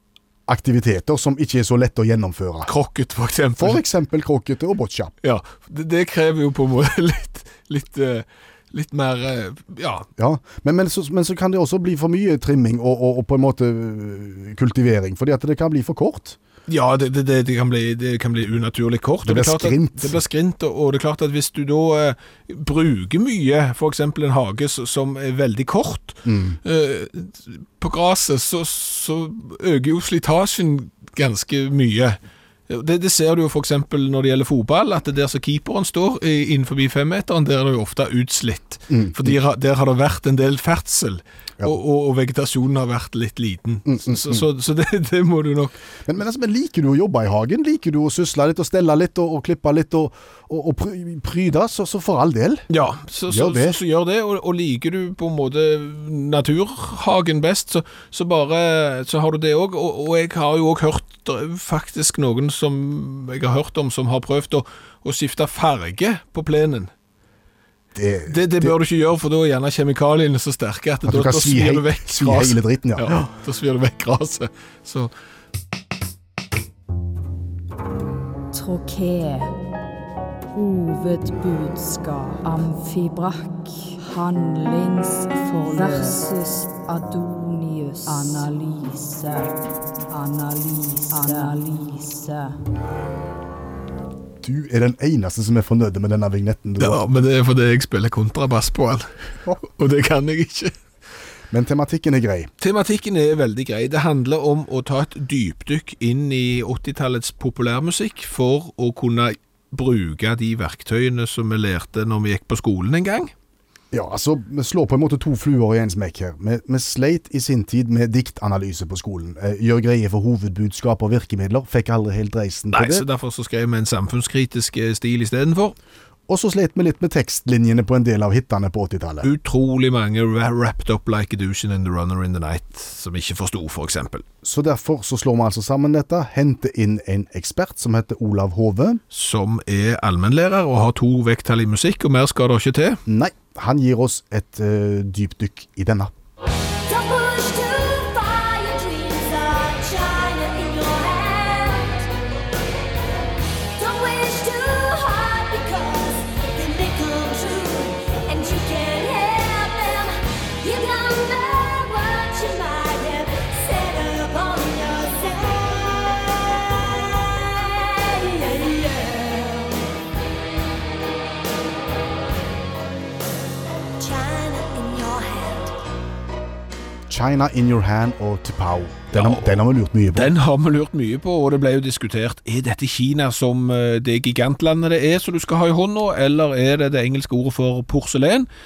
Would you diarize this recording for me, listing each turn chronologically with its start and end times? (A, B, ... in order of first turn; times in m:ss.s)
0:00.5-0:02.7 A
0:02.6-0:03.8 B
0:03.6-0:05.1 A
0:05.2-0:10.1 B
0:10.2-0:16.4 A
0:16.7-0:45.7 B
0:19.2-0:20.2 A
0:26.2-0:26.6 A
0:38.9-0:39.4 A
0:43.8-0:44.4 A
0:46.0-0:52.7 A
0:52.7-1:06.9 B
0:53.3-0:53.8 A
1:07.9-1:08.7 A
1:08.3-1:15.1 B
1:11.0-1:13.3 A
1:18.5-1:19.5 C
1:20.5-1:29.6 C
1:30.1-1:32.6 C
1:34.4-1:37.0 A
1:36.8-1:39.1 B
1:39.6-1:40.7 B
1:41.5-1:42.5 A
1:42.6-1:53.3 B
1:53.9-2:03.0 A
2:02.7-2:05.8 B
2:06.3-2:09.3 A
2:09.2-2:14.2 B
2:14.4-2:19.0 A
2:19.1-2:23.0 B
2:23.1-2:26.1 A
2:26.8-2:32.1 D
2:33.8-2:49.8 D
2:54.0-2:55.7 D
2:57.1-3:00.3 A
2:59.1-3:08.5 B